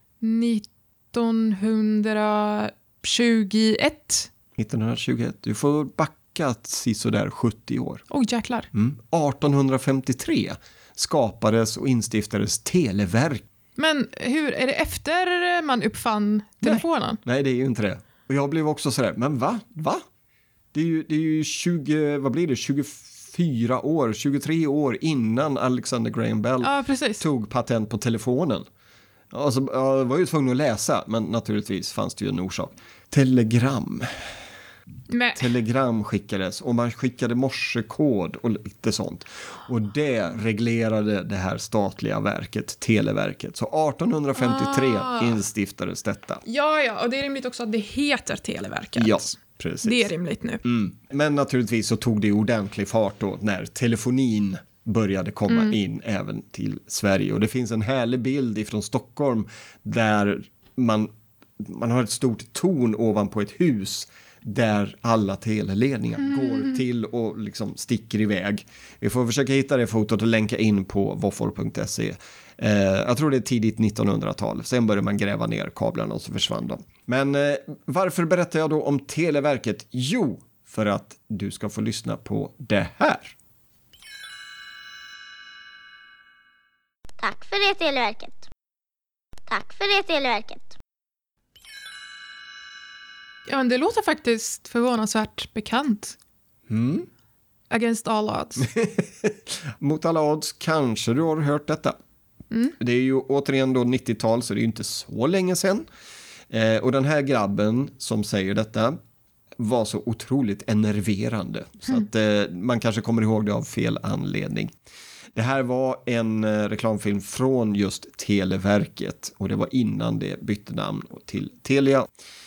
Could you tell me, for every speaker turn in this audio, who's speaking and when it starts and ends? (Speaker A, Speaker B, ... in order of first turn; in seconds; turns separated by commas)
Speaker A: 0.2-4.3, Speaker B: 4.5-8.0, Speaker A: 8.1-8.7, Speaker B: 8.7-13.4, Speaker A: 13.8-17.2, Speaker B: 16.6-20.0, Speaker B: 20.7-28.7, Speaker A: 26.6-27.2, Speaker B: 29.3-34.4, Speaker A: 35.1-35.5, Speaker B: 35.4-46.4, Speaker A: 44.4-45.4, Speaker A: 46.5-50.6, Speaker B: 48.9-50.1, Speaker B: 50.6-83.3, Speaker A: 55.5-55.8, Speaker A: 66.3-66.7, Speaker C: 87.2-88.5, Speaker C: 89.5-90.7, Speaker A: 93.5-96.2, Speaker B: 96.7-97.1, Speaker A: 97.7-98.7, Speaker B: 98.6-102.0, Speaker B: 102.8-105.9, Speaker B: 106.5-109.0, Speaker B: 109.6-114.7, Speaker B: 115.3-122.1